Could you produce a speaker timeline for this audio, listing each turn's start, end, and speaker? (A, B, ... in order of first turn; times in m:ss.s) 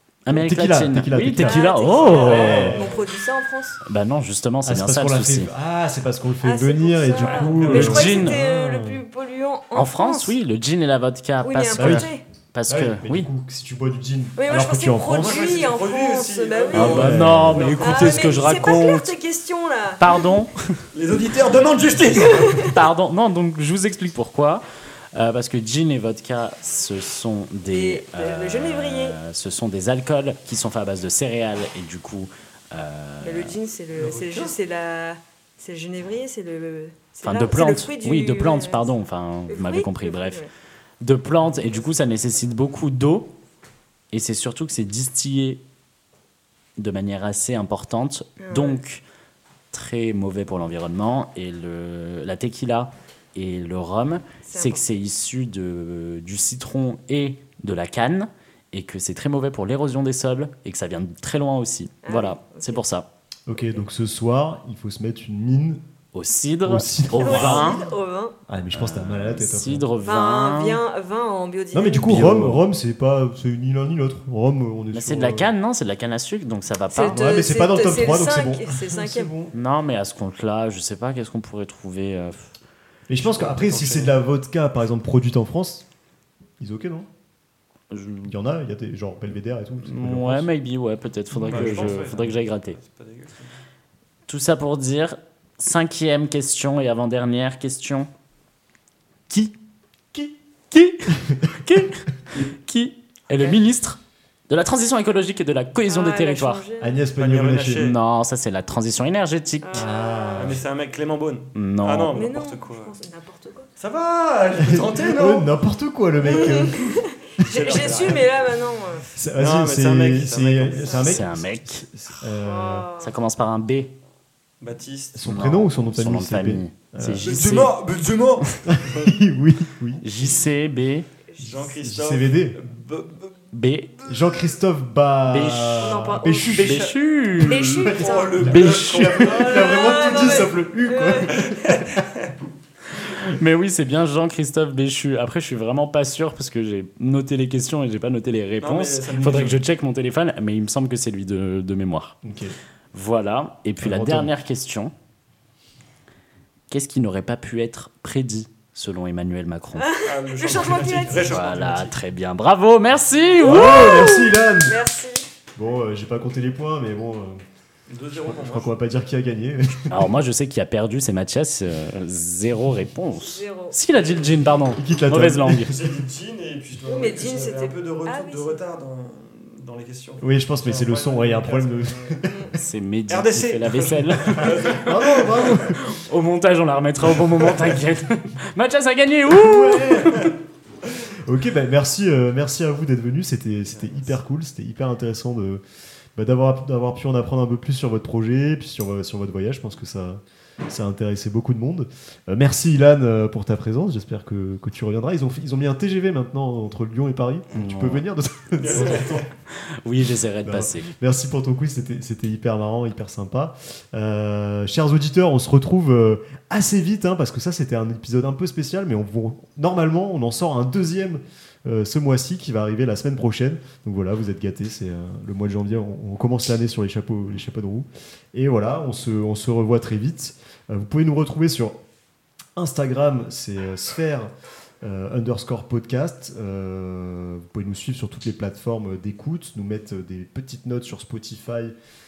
0:00.2-0:02.7 A
0:00.3-0:03.0 B
0:01.4-0:03.8 C
0:01.8-0:03.1 D
0:03.8-0:05.5 A
0:04.6-0:09.0 B
0:06.4-0:10.4 C
0:07.1-0:08.3 D
0:07.6-0:08.4 A
0:09.8-0:13.3 A
0:11.4-0:12.2 C
0:11.8-0:12.1 B
0:12.7-0:15.5 B
0:14.4-0:17.1 C
0:15.1-0:18.8 D
0:16.7-0:19.2 A
0:16.8-0:17.8 B
0:17.8-0:20.2 C
0:20.0-0:20.9 A
0:20.9-0:22.8 D
0:22.2-0:22.7 C
0:22.6-0:33.6 A
0:27.7-0:29.2 C
0:33.2-0:38.9 C
0:33.9-0:34.6 D
0:37.2-0:40.5 A
0:39.5-0:40.5 C
0:41.0-0:43.3 A
0:41.5-0:41.9 D
0:44.1-0:45.6 A
0:46.8-0:49.0 A
0:48.4-0:48.8 C
0:49.7-1:03.1 A
0:54.5-0:54.9 C
1:02.0-1:02.8 C
1:03.5-1:05.8 B
1:06.1-1:07.8 A
1:06.6-1:07.8 B
1:07.2-1:08.4 C
1:08.5-1:09.8 B
1:08.7-1:10.8 A
1:10.0-1:12.4 C
1:11.7-1:15.5 B
1:12.1-1:12.6 A
1:14.9-1:17.2 A
1:16.9-1:19.3 C
1:17.1-1:19.5 B
1:19.5-1:22.6 A
1:23.1-1:25.9 B
1:23.2-1:24.2 D
1:26.6-1:27.1 B
1:27.9-1:28.3 A
1:28.2-1:30.5 B
1:29.8-1:32.8 A
1:31.3-1:32.1 B
1:31.4-1:33.6 D
1:34.3-1:38.1 A
1:39.3-1:39.6 A
1:40.1-1:46.6 A
1:45.9-1:47.0 C
1:46.8-1:47.9 B
1:47.2-1:48.0 D
1:47.8-1:49.9 A
1:49.6-1:50.6 C
1:49.8-1:50.6 B
1:50.4-1:52.9 D
1:51.6-1:52.3 A
1:52.1-1:53.7 C
1:53.8-1:55.5 D
1:54.6-1:58.2 B
1:56.2-1:59.1 C
1:57.4-1:58.6 D
1:59.1-2:02.9 B
1:59.4-2:01.2 D
2:00.7-2:00.9 C
2:00.9-2:01.9 A
2:02.4-2:03.2 C
2:03.0-2:03.9 A
2:04.6-2:05.3 D
2:05.1-2:07.7 B
2:05.2-2:07.8 A
2:07.2-2:09.3 D
2:08.7-2:10.0 B
2:10.0-2:11.1 A
2:11.3-2:11.7 C
2:11.4-2:13.4 D
2:11.8-2:12.6 B
2:13.5-2:14.0 A
2:14.1-2:16.9 B
2:15.3-2:19.4 A
2:15.8-2:16.6 C
2:16.6-2:20.6 D
2:17.4-2:18.5 C
2:17.8-2:21.9 B
2:19.1-2:21.4 C
2:21.3-2:22.4 D
2:22.9-2:32.2 A
2:28.6-2:29.6 D
2:32.2-2:32.6 B
2:32.9-2:34.9 A
2:33.8-2:34.3 B
2:36.7-2:39.9 A
2:39.8-2:41.4 C
2:40.0-2:42.0 D
2:41.1-2:44.0 A
2:43.4-2:44.8 B
2:43.4-2:45.3 C
2:45.6-2:47.4 B
2:47.9-2:48.8 D
2:48.1-2:50.2 B
2:49.9-2:55.8 A
2:53.2-2:54.4 C
2:53.9-2:54.8 D
2:54.8-2:55.8 B
2:55.6-3:02.3 D
2:56.9-2:58.6 C
3:00.2-3:02.6 B
3:02.3-3:02.6 C
3:02.6-3:10.3 A
3:03.1-3:05.7 D
3:04.5-3:05.8 B
3:09.3-3:10.3 B
3:11.2-3:15.6 B
3:13.6-3:14.2 D
3:16.2-3:29.3 B
3:27.5-3:28.0 A
3:28.6-3:29.3 D
3:29.5-3:30.9 A
3:30.4-3:51.8 B
3:52.6-3:54.3 B
3:54.8-4:01.7 B